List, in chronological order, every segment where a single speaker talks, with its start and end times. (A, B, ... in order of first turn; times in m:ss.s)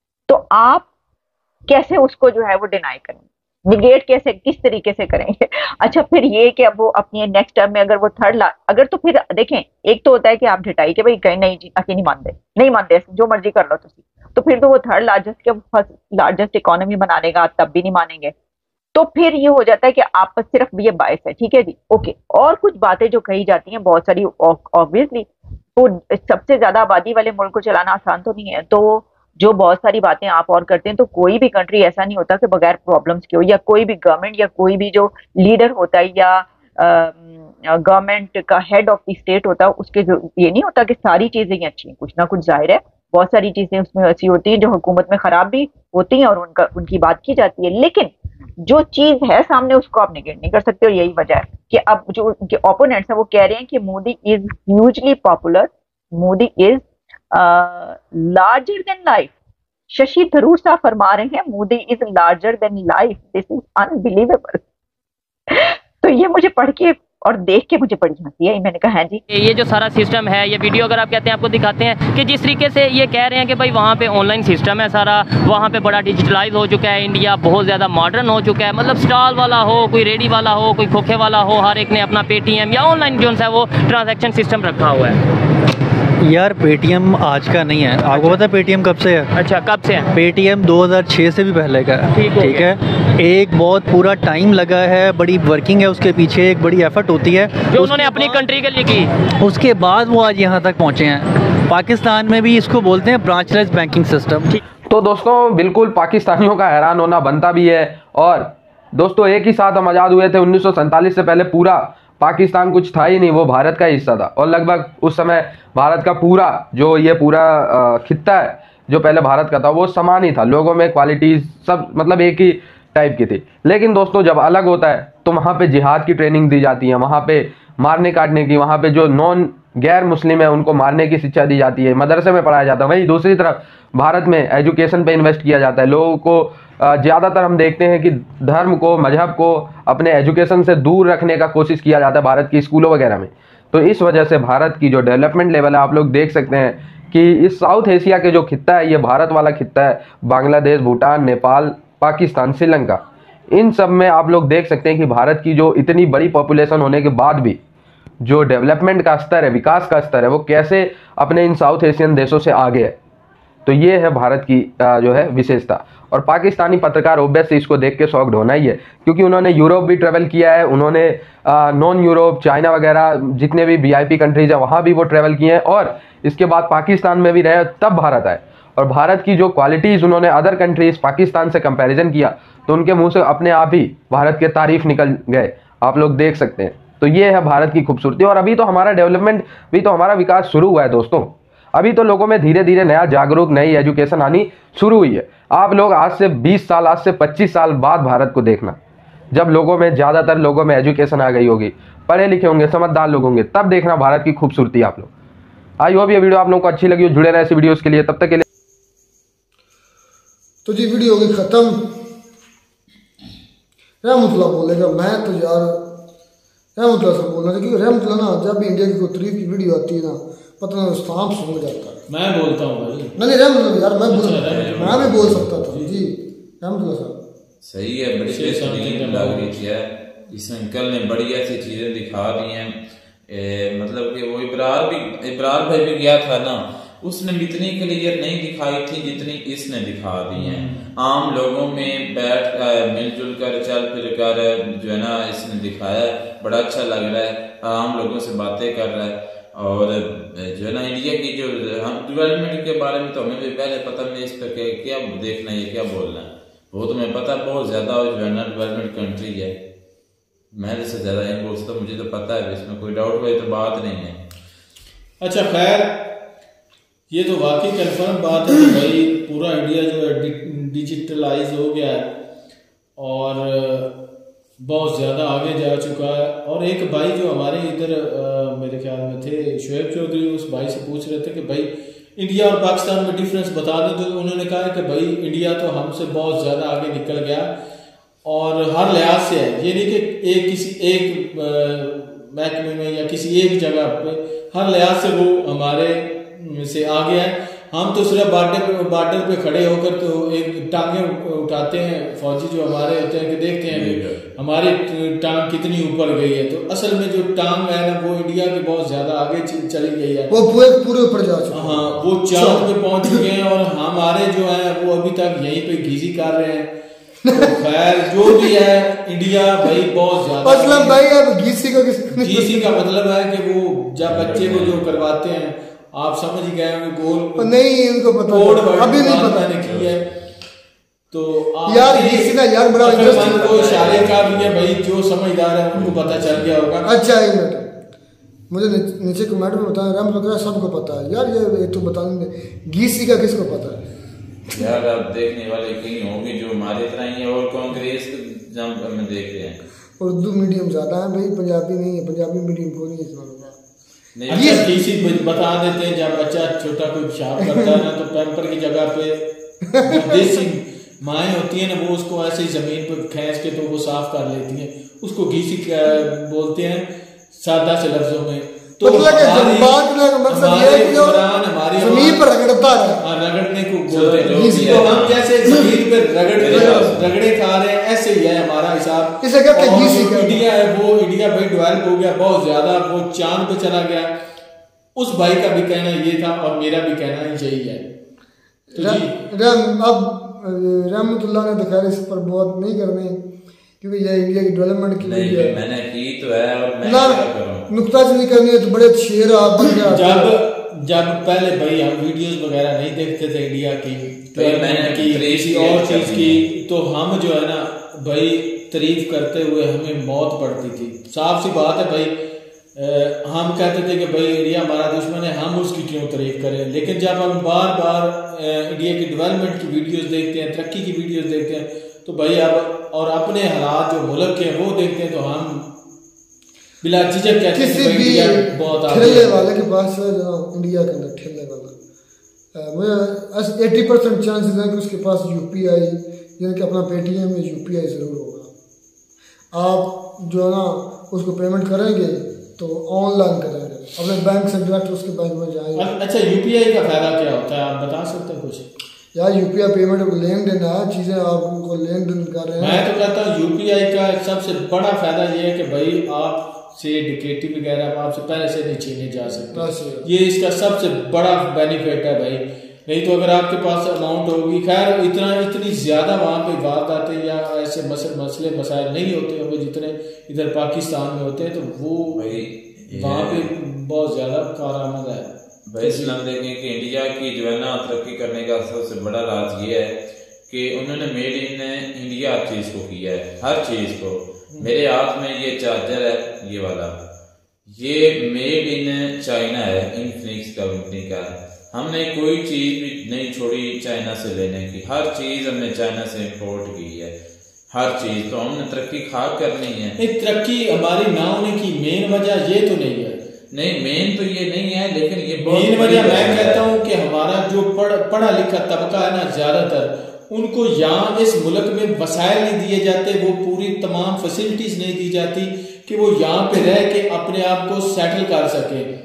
0:00.3-0:00.9 A
0:01.7-0:18.3 A
0:19.0-0:48.1 A
0:48.6-0:59.3 A
0:59.9-1:04.6 A
1:05.5-1:09.2 A
1:09.3-1:25.2 B
1:26.2-1:29.3 C
1:28.0-1:28.5 B
1:29.3-1:30.2 B
1:30.1-1:38.4 C
1:32.1-1:32.8 B
1:37.6-1:39.1 B
1:39.4-1:44.5 C
1:44.9-2:33.0 D
2:33.6-2:37.6 D
2:38.2-2:43.0 D
2:43.7-3:18.8 D
3:19.4-3:25.1 D
3:25.8-3:28.4 D
3:30.6-3:31.8 E
3:34.0-3:35.8 E
3:36.8-3:42.0 E
3:42.1-3:43.1 F
3:43.2-3:47.2 E
3:44.1-3:46.1 F
3:44.5-3:45.5 G
3:47.6-3:52.7 G
3:48.3-3:49.6 F
3:53.3-4:19.5 G
4:00.4-4:00.8 F
4:20.6-4:24.2 G
4:25.2-4:26.0 F
4:27.1-4:32.1 F
4:33.0-4:33.9 F
4:34.6-4:47.5 F
4:48.2-5:10.3 F
5:03.7-5:04.2 G
5:10.3-5:13.1 E
5:11.5-5:16.7 F
5:17.3-5:21.0 F
5:20.4-5:22.8 E
5:22.1-5:27.6 F
5:24.0-5:25.0 G
5:27.4-5:29.6 E
5:28.3-5:30.1 F
5:29.6-5:29.9 G
5:31.1-5:36.9 F
5:31.7-5:33.7 E
5:32.8-5:34.6 G
5:35.7-5:36.5 G
5:36.8-5:37.7 E
5:38.5-5:43.8 E
5:44.5-5:49.6 G
5:50.0-5:53.6 E
5:54.2-5:54.6 G
5:54.3-5:59.2 F
5:54.3-5:55.0 E
5:59.8-6:00.3 E
5:59.8-6:12.3 F
6:08.8-6:13.0 E
6:13.0-6:24.1 F
6:13.9-6:15.5 G
6:14.3-6:14.8 E
6:16.3-6:17.2 G
6:19.2-6:20.4 E
6:25.0-6:27.9 F
6:28.7-6:33.2 E
6:28.8-6:29.2 F
6:33.8-6:35.6 E
6:35.0-6:37.7 G
6:36.8-6:40.3 E
6:39.9-6:52.2 F
6:44.4-6:46.4 G
6:52.8-7:05.7 F
7:06.8-7:09.5 F
7:07.5-7:11.7 E
7:12.6-7:18.5 E
7:19.5-7:25.9 E
7:25.8-7:28.6 F
7:29.1-7:32.9 E
7:32.6-7:52.4 F
7:39.5-7:40.1 E
7:52.0-7:53.5 G
7:52.9-7:56.1 F
7:55.7-7:59.9 G
8:00.5-8:06.9 G
8:07.7-8:17.1 G
8:17.7-8:20.0 G
8:20.0-8:23.2 F
8:23.5-8:26.6 G
8:25.4-8:38.9 F